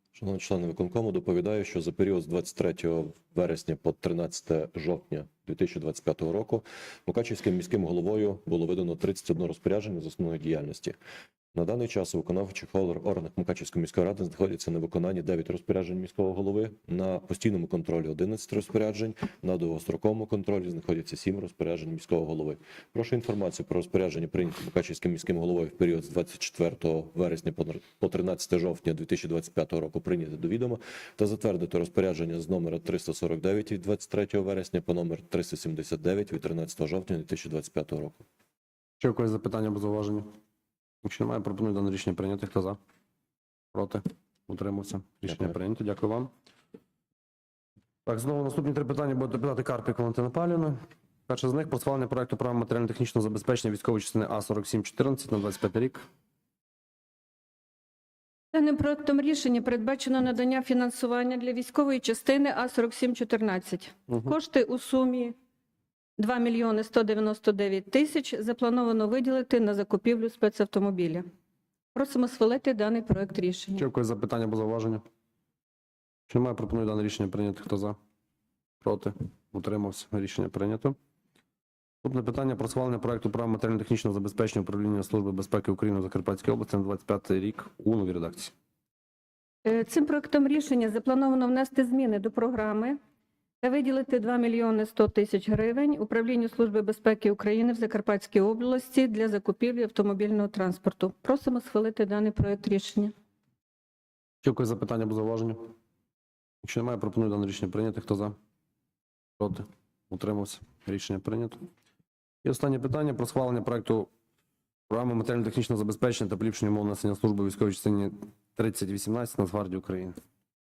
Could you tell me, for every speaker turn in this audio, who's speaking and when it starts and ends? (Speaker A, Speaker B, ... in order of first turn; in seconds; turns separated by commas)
Speaker A: 0.1-10.9, Speaker A: 11.5-38.2, Speaker B: 39.0-40.3, Speaker B: 41.0-42.8, Speaker B: 43.7-46.3, Speaker B: 48.0-56.0, Speaker C: 58.5-65.3, Speaker C: 66.2-71.2, Speaker C: 71.9-73.8, Speaker B: 73.8-75.0, Speaker B: 76.3-78.0, Speaker B: 78.8-81.0, Speaker B: 82.0-88.5, Speaker C: 89.6-93.0, Speaker C: 93.6-103.1, Speaker B: 104.4-105.6, Speaker B: 106.6-108.3, Speaker B: 109.4-111.6, Speaker B: 112.4-114.1, Speaker B: 114.9-120.2